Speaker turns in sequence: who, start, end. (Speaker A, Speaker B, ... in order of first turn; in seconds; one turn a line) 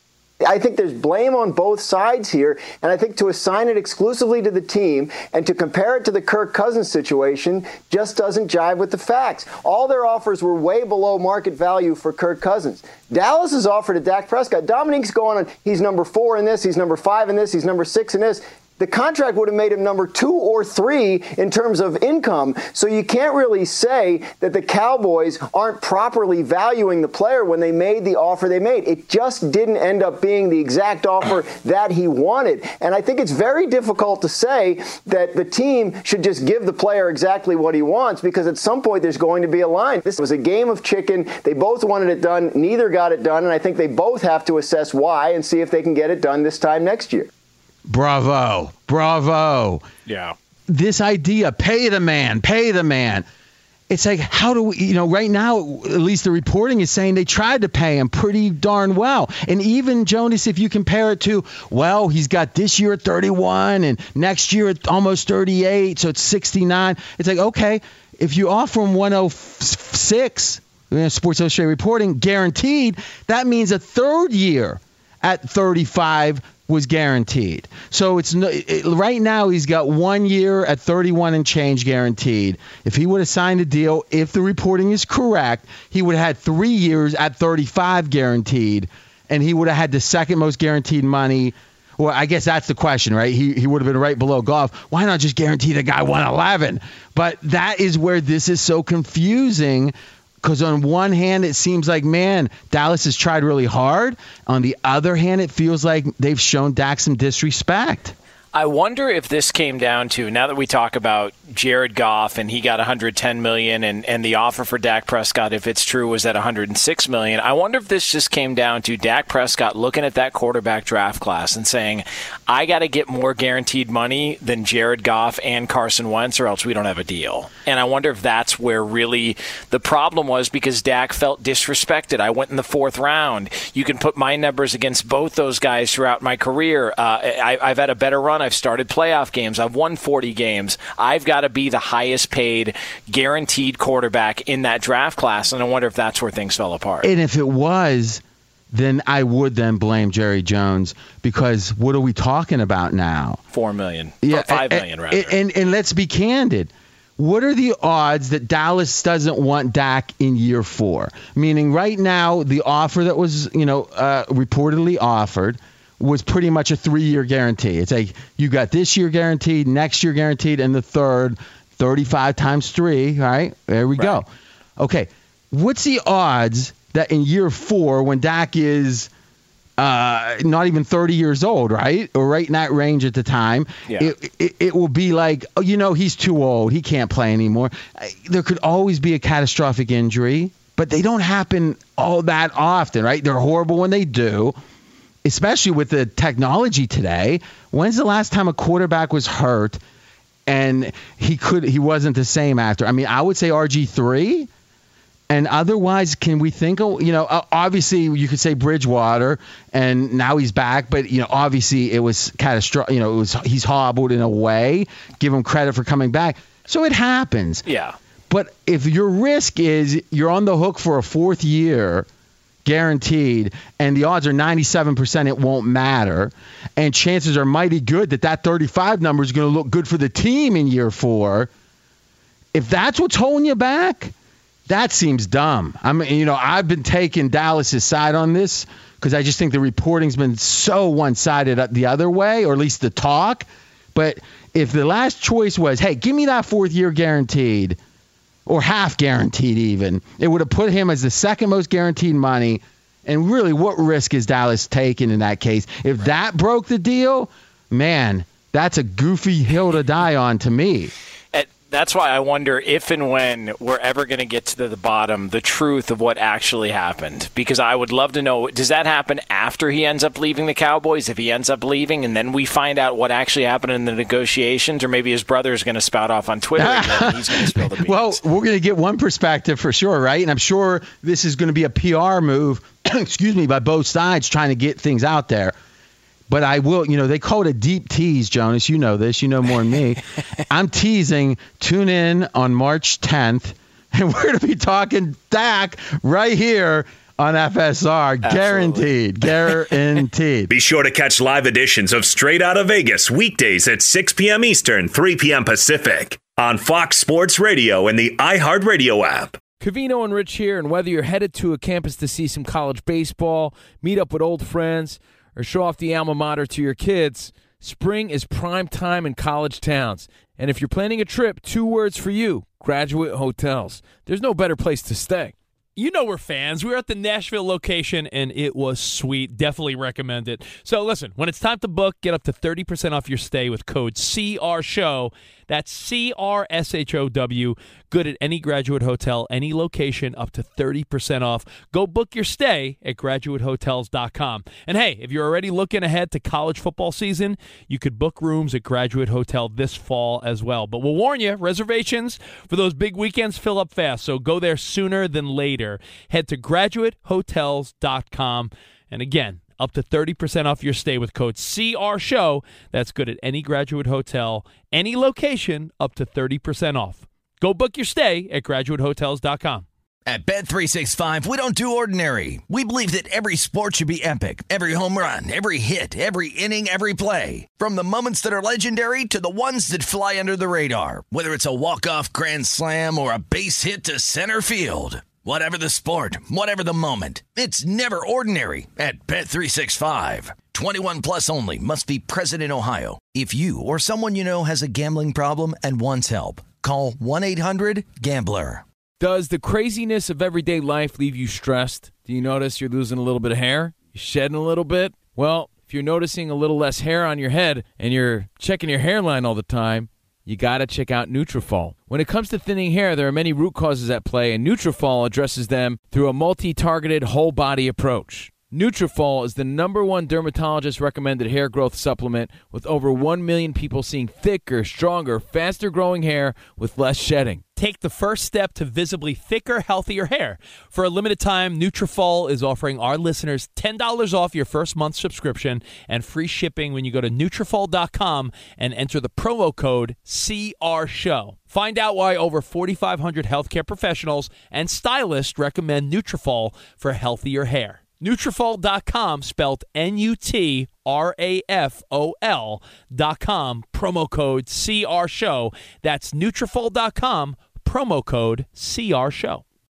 Speaker A: 0.4-47.3
Speaker B: 47.9-49.8
Speaker C: 50.1-50.3
Speaker B: 50.7-53.2
Speaker B: 53.9-108.1
Speaker C: 108.5-147.1
Speaker B: 147.0-153.4
Speaker C: 153.5-155.3
Speaker B: 154.2-174.2
Speaker B: 174.8-179.1
Speaker B: 179.8-194.6
Speaker B: 195.2-199.8
Speaker B: 200.4-204.5
Speaker B: 205.3-217.6
Speaker C: 217.7-217.9
Speaker B: 218.3-222.1
Speaker B: 222.6-231.5
Speaker B: 232.5-234.1
Speaker B: 234.7-247.8
Speaker B: 248.4-260.9
Speaker C: 261.3-278.2
Speaker B: 276.6-285.5
Speaker B: 286.3-300.5
Speaker C: 298.2-298.9
Speaker D: 300.5-309.4
Speaker E: 309.6-325.3
Speaker F: 325.8-369.6
Speaker G: 370.1-398.6
Speaker E: 399.0-427.4
Speaker F: 427.6-459.4